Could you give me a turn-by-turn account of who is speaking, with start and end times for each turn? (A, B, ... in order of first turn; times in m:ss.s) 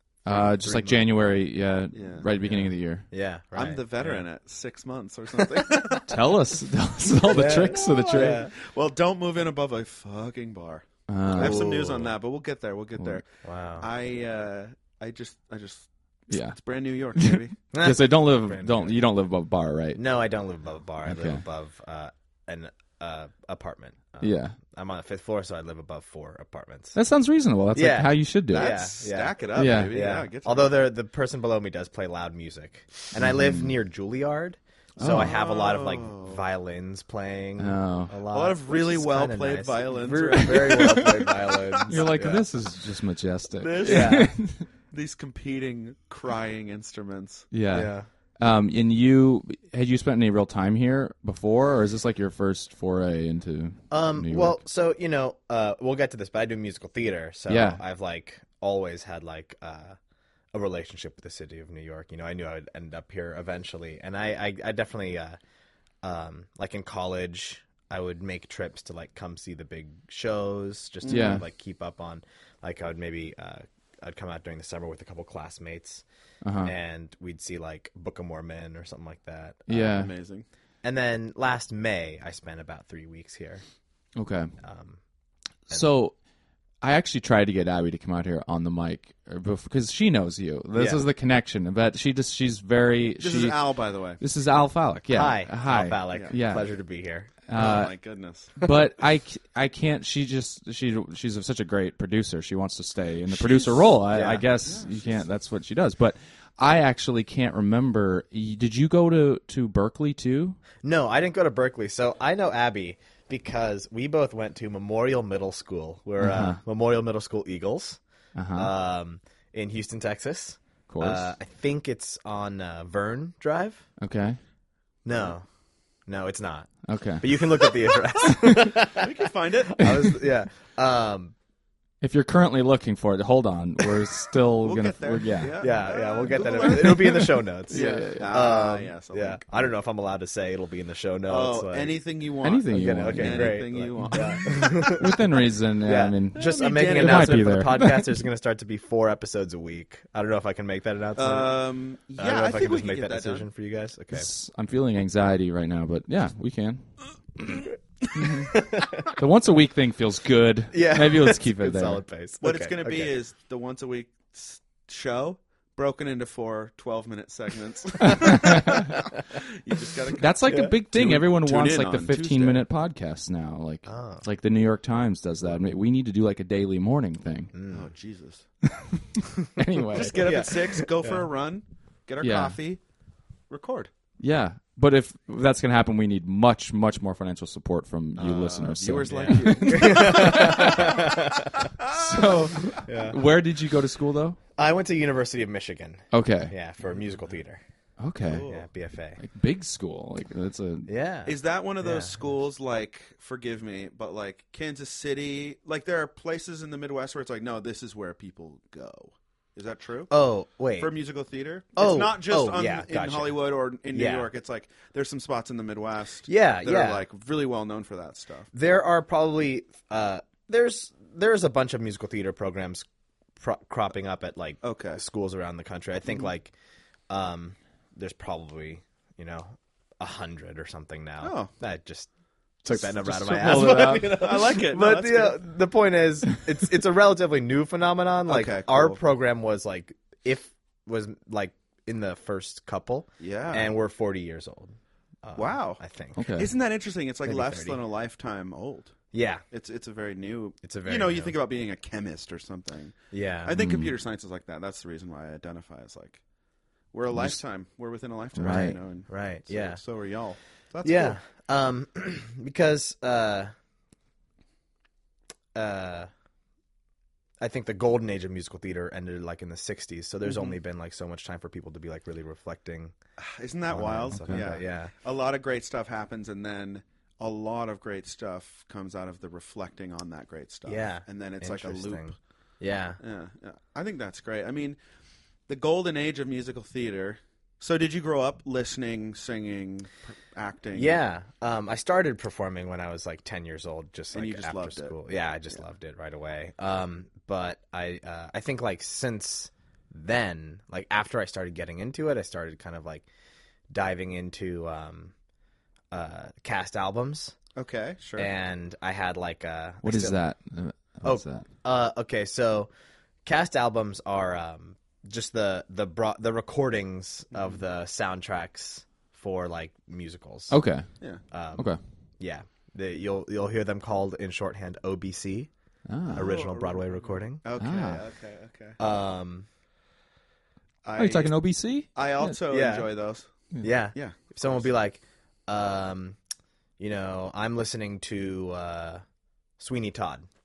0:00.3-0:03.1 A
0:00.6-0:01.0 B
0:01.9-0:02.3 B
0:02.4-0:04.2 C
0:03.5-0:06.2 B
0:05.3-0:06.0 C
0:06.1-0:08.5 A
0:07.3-0:08.5 C
0:07.7-0:13.2 B
0:11.1-0:11.7 A
0:11.4-0:12.1 C
0:13.4-0:13.9 C
0:13.8-0:17.6 B
0:16.3-0:16.6 A
0:17.2-0:20.0 A
0:17.7-0:19.0 C
0:20.0-0:27.0 C
0:21.0-0:21.4 A
0:24.2-0:24.6 A
0:27.0-0:28.8 A
0:27.7-0:42.5 C
0:28.5-0:30.8 B
0:29.6-0:29.9 A
0:33.2-0:33.8 A
0:35.0-0:35.3 A
0:35.0-0:36.4 B
0:37.6-0:38.2 A
0:38.3-0:41.9 B
0:40.6-0:41.1 A
0:41.9-0:44.7 A
0:43.6-0:47.5 B
0:43.8-0:44.3 C
0:47.5-0:54.6 A
0:47.7-0:48.1 C
0:53.9-1:00.0 C
0:57.5-0:57.8 A
1:00.5-1:05.4 C
1:06.0-1:16.0 C
1:11.0-1:11.4 B
1:11.1-1:11.4 A
1:16.4-1:16.7 A
1:16.6-1:19.9 C
1:19.7-1:20.1 A
1:19.8-1:20.5 B
1:20.8-1:23.6 C
1:24.2-1:24.5 A
1:24.6-1:25.0 C
1:25.7-1:26.2 A
1:26.8-1:36.7 A
1:30.7-1:31.0 C
1:33.2-1:34.2 B
1:35.1-1:37.3 C
1:37.5-1:38.0 A
1:37.6-1:38.7 B
1:38.6-1:50.6 A
1:43.3-1:44.0 B
1:44.1-1:44.4 C
1:44.6-1:45.3 B
1:50.8-1:58.0 C
1:56.2-1:56.6 A
1:58.4-1:58.7 A
1:58.5-2:03.9 C
2:00.9-2:01.3 A
2:04.0-2:04.4 A
2:05.0-2:05.4 C
2:06.1-2:11.3 C
2:06.9-2:07.3 A
2:09.0-2:09.8 B
2:09.8-2:10.2 A
2:12.0-2:15.6 A
2:14.6-2:19.7 B
2:15.6-2:22.0 C
2:17.7-2:18.5 A
2:21.3-2:24.5 B
2:22.4-2:28.2 A
2:22.7-2:25.2 C
2:25.8-2:31.6 C
2:26.4-2:27.6 B
2:31.2-2:33.5 B
2:32.2-2:34.3 C
2:34.1-2:37.0 A
2:38.1-2:38.6 A
2:38.5-2:39.2 C
2:39.1-2:42.0 A
2:40.7-2:43.1 C
2:42.4-2:52.7 B
2:48.0-2:49.0 A
2:50.2-2:57.5 A
2:50.5-2:50.8 C
2:53.9-2:54.2 C
2:57.5-2:57.9 C
2:57.7-2:58.5 B
2:59.5-3:00.5 A
2:59.9-3:02.8 B
3:00.2-3:00.9 C
3:02.2-3:02.6 A
3:03.5-3:03.9 B
3:04.2-3:10.9 A
3:08.2-3:12.7 B
3:09.1-3:11.5 C
3:11.9-3:14.4 A
3:12.7-3:13.2 C
3:14.6-3:17.6 C
3:16.1-3:16.5 A
3:18.0-3:18.5 A
3:18.3-3:18.7 B
3:18.5-3:19.2 C
3:19.2-3:20.9 A
3:20.9-3:22.1 C
3:21.3-3:30.1 B
3:30.1-3:30.9 C
3:30.8-3:38.5 B
3:31.8-3:33.4 C
3:33.9-3:34.3 C
3:36.3-3:37.0 C
3:38.5-3:42.9 C
3:43.4-3:46.5 C
3:44.6-3:45.0 B
3:47.1-3:52.1 C
3:51.2-3:51.5 B
3:52.6-4:06.3 C
3:52.7-3:54.2 A
3:53.4-3:55.4 B
3:58.3-3:59.0 B
4:03.2-4:03.7 B
4:05.4-4:05.8 B
4:06.2-4:06.5 A
4:06.4-4:09.0 B
4:07.3-4:07.8 C
4:09.1-4:09.4 C
4:09.5-4:16.2 B
4:10.6-4:11.4 C
4:13.1-4:13.6 C
4:13.6-4:13.9 A
4:16.9-4:21.2 B
4:17.1-4:17.4 A
4:18.4-4:18.8 A
4:19.1-4:19.8 C
4:20.8-4:23.5 C
4:25.6-4:26.1 C
4:27.4-4:33.0 C
4:30.2-4:30.6 B
4:33.2-4:42.2 B
4:33.7-4:34.9 C
4:34.0-4:34.4 A
4:40.7-4:43.0 C
4:43.0-4:44.8 B
4:45.5-4:51.0 B
4:50.7-5:03.1 C
4:54.1-4:55.0 B
5:03.7-5:05.1 C
5:05.9-5:07.4 C
5:07.6-5:08.3 B
5:08.2-5:10.2 C
5:09.8-5:11.4 A
5:11.0-5:12.7 C
5:13.2-5:20.6 C
5:17.3-5:17.6 B
5:20.5-5:20.9 A
5:21.3-5:21.7 C
5:22.2-5:25.5 C
5:25.9-5:26.4 A
5:26.1-5:28.8 B
5:26.1-5:27.4 C
5:27.6-5:28.0 A
5:28.8-5:29.5 C
5:30.8-5:31.4 B
5:31.0-5:32.4 A
5:31.9-5:33.3 B
5:32.5-5:32.9 C
5:33.6-5:36.2 C
5:34.0-5:34.8 B
5:36.8-5:39.0 C
5:39.6-5:40.3 C